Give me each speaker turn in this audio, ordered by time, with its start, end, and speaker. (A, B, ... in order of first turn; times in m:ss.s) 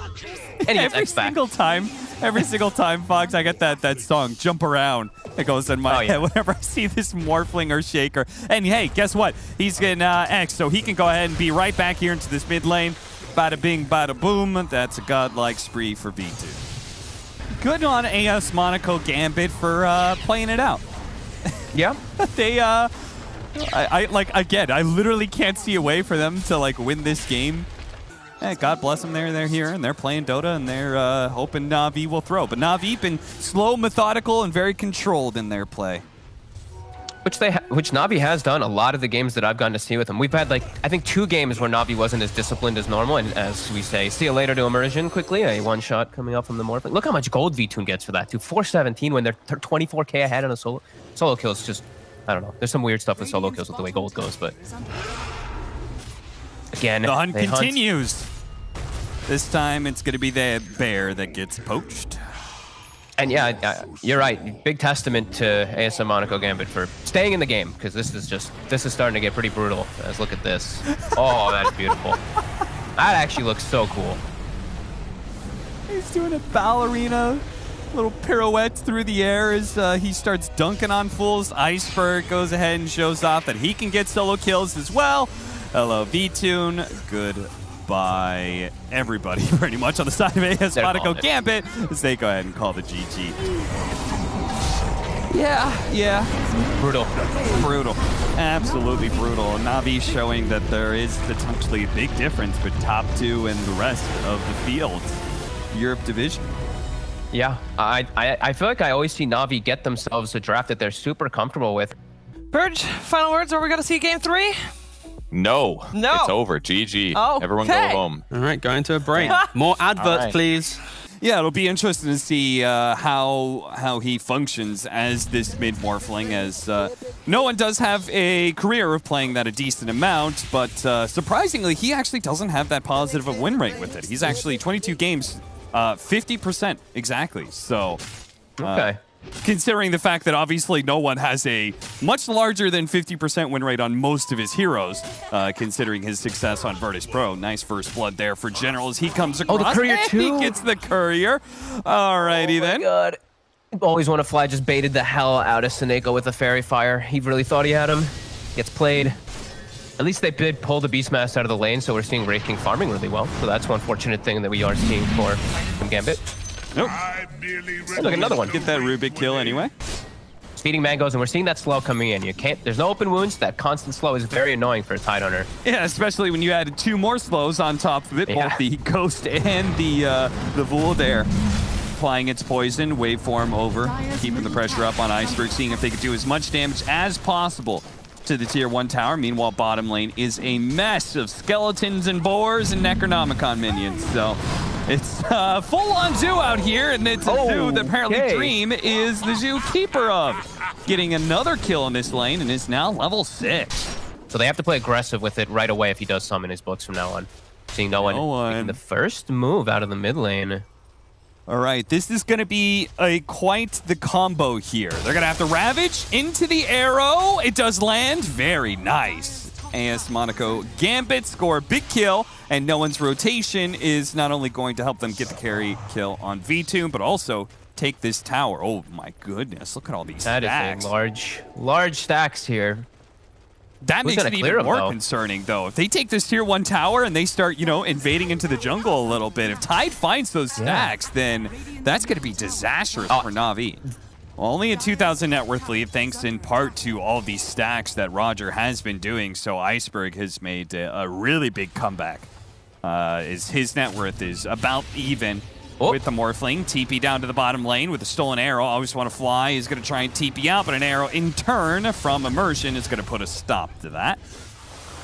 0:00.6-0:16.6 A
0:00.7-0:01.4 B
0:05.9-0:06.2 B
0:17.6-0:20.8 A
0:21.7-0:22.0 B
0:22.2-0:22.9 A
0:23.5-0:27.7 A
0:28.4-0:36.0 A
0:37.2-0:54.6 B
0:56.7-0:57.8 B
0:57.0-0:58.3 A
0:59.3-1:02.2 A
1:03.2-1:12.2 B
1:11.0-1:11.3 A
1:13.0-1:14.2 B
1:15.9-1:33.4 A
1:30.8-1:31.2 B
1:35.3-1:36.4 A
1:36.8-1:37.3 B
1:37.2-1:46.4 A
1:47.3-1:51.9 B
1:52.5-1:54.7 C
1:55.3-1:58.3 D
1:55.9-1:56.4 C
1:57.1-1:58.0 C
1:58.3-2:00.8 E
1:59.1-1:59.4 D
1:59.1-2:00.4 C
2:00.0-2:00.3 D
2:01.2-2:18.0 A
2:18.6-2:19.0 B
2:18.6-2:18.9 A
2:19.4-2:32.9 A
2:29.5-2:30.6 B
2:32.4-2:33.2 B
2:33.7-2:39.2 B
2:40.0-2:46.2 B
2:46.7-2:47.1 A
2:47.8-2:49.7 A
2:47.9-2:48.5 B
2:50.6-2:55.5 B
2:55.6-3:01.3 A
2:58.3-2:58.6 B
3:01.9-3:23.9 A
3:17.2-3:18.5 B
3:24.3-3:30.6 B
3:27.9-3:28.8 A
3:31.5-3:50.9 A
3:50.2-3:52.9 B
3:53.8-4:03.8 A
3:54.0-3:55.0 B
4:00.6-4:00.9 B
4:04.4-4:12.3 A
4:12.8-4:24.2 A